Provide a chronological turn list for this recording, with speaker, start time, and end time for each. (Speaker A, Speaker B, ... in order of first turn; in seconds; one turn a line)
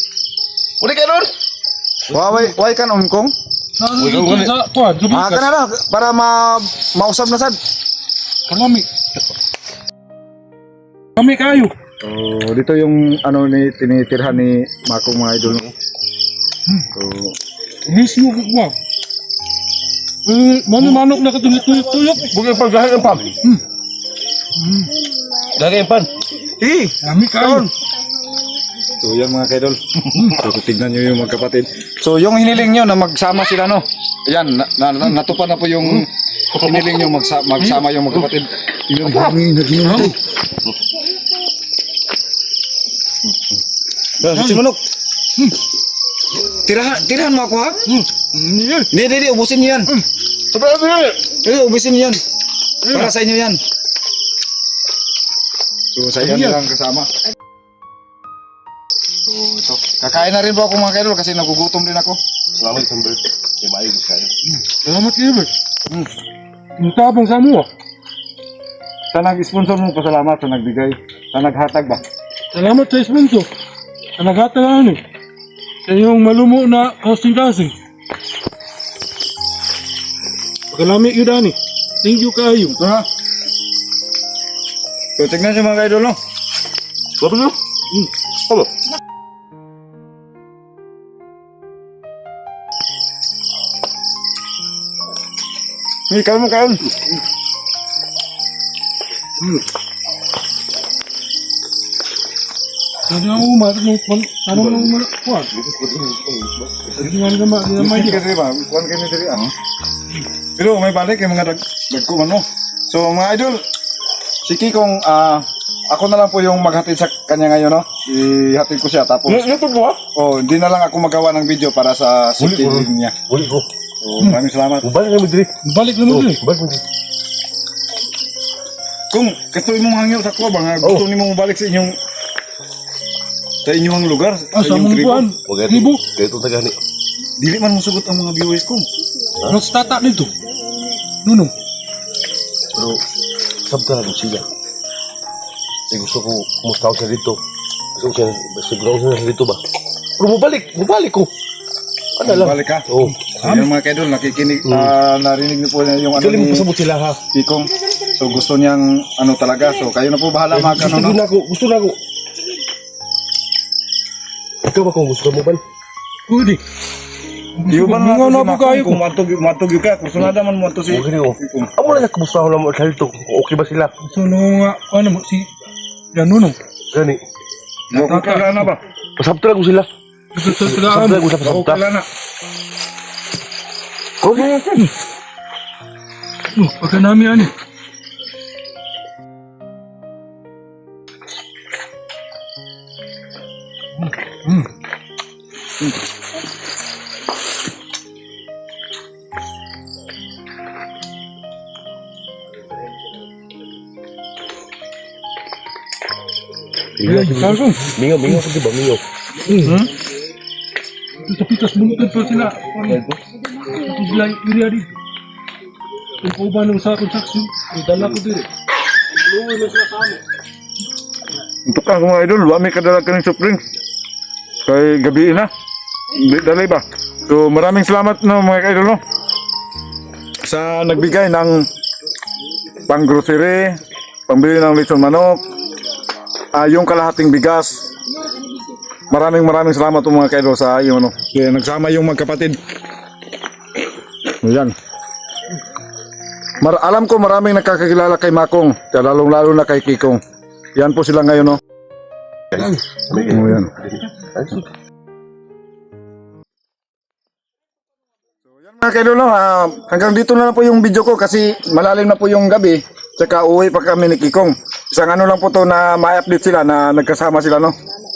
Speaker A: 0.8-1.3
Speaker B: 2.1-3.3
Speaker C: 3.8-5.5
Speaker A: 4.0-4.5
Speaker B: 5.1-7.6
Speaker C: 8.5-8.9
Speaker C: 11.2-11.7
Speaker B: 12.0-15.7
Speaker B: 16.9-17.3
Speaker C: 17.9-18.7
Speaker C: 20.2-22.3
Speaker A: 22.3-23.4
Speaker C: 24.6-24.9
Speaker A: 25.5-26.9
Speaker C: 27.0-27.7
Speaker B: 29.0-40.2
Speaker C: 39.8-40.1
Speaker B: 44.2-44.8
Speaker C: 44.3-44.6
Speaker B: 46.3-47.8
Speaker C: 47.9-48.9
Speaker B: 48.9-49.9
Speaker C: 50.6-51.0
Speaker B: 51.2-52.2
Speaker C: 52.8-53.1
Speaker B: 52.9-53.6
Speaker B: 55.9-57.1
Speaker C: 56.2-56.6
Speaker B: 59.3-62.2
Speaker A: 62.5-64.3
Speaker C: 64.7-65.5
Speaker C: 66.8-67.7
Speaker B: 69.1-72.0
Speaker C: 72.5-73.5
Speaker C: 74.2-75.0
Speaker C: 75.8-77.7
Speaker C: 80.7-82.8
Speaker B: 82.8-83.0
Speaker B: 85.2-86.2
Speaker A: 87.2-88.7
Speaker B: 96.1-96.8
Speaker C: 103.1-105.5
Speaker A: 104.5-105.0
Speaker A: 105.5-107.1
Speaker C: 107.0-108.2
Speaker B: 107.8-109.5
Speaker B: 110.5-113.6
Speaker B: 114.4-119.5
Speaker A: 119.3-120.0
Speaker B: 120.1-123.2
Speaker A: 122.4-123.7
Speaker B: 124.0-124.8
Speaker A: 124.8-125.5
Speaker C: 125.6-126.4
Speaker A: 126.0-126.8
Speaker B: 129.1-131.9
Speaker B: 133.6-135.3
Speaker C: 134.5-136.0
Speaker A: 135.4-136.8
Speaker B: 137.4-138.8
Speaker C: 139.5-140.3
Speaker C: 141.2-141.5
Speaker A: 142.7-143.0
Speaker A: 143.6-144.5
Speaker A: 145.9-147.4
Speaker A: 147.9-149.6
Speaker A: 150.2-151.3
Speaker A: 152.2-153.2
Speaker B: 152.2-156.7
Speaker C: 153.1-153.7
Speaker A: 154.6-154.9
Speaker A: 156.2-157.2
Speaker B: 157.3-161.2
Speaker A: 160.5-162.0
Speaker A: 164.6-165.6
Speaker C: 166.3-166.6
Speaker C: 167.6-169.0
Speaker B: 167.7-171.7
Speaker A: 170.9-173.9
Speaker C: 174.1-175.5
Speaker C: 176.1-176.6
Speaker A: 176.9-177.2
Speaker B: 177.9-178.8
Speaker C: 177.9-178.7
Speaker A: 179.2-179.9
Speaker C: 180.3-181.4
Speaker A: 180.4-181.8
Speaker B: 181.4-182.0
Speaker A: 184.2-184.6
Speaker B: 184.3-184.9
Speaker C: 186.5-187.5
Speaker C: 194.0-194.7
Speaker A: 207.0-209.7
Speaker C: 207.0-208.4
Speaker C: 209.4-209.8
Speaker C: 211.2-213.1
Speaker A: 212.9-213.2
Speaker C: 213.7-214.9
Speaker C: 216.2-218.5
Speaker C: 219.1-220.2
Speaker B: 221.7-223.6
Speaker B: 224.6-225.5
Speaker B: 226.1-229.0
Speaker B: 230.4-231.7
Speaker B: 232.8-235.4
Speaker B: 236.5-237.8
Speaker B: 239.1-242.6
Speaker B: 244.4-244.7
Speaker B: 246.6-250.2
Speaker B: 250.8-251.6
Speaker A: 252.6-254.7
Speaker B: 253.2-253.7
Speaker B: 258.5-267.7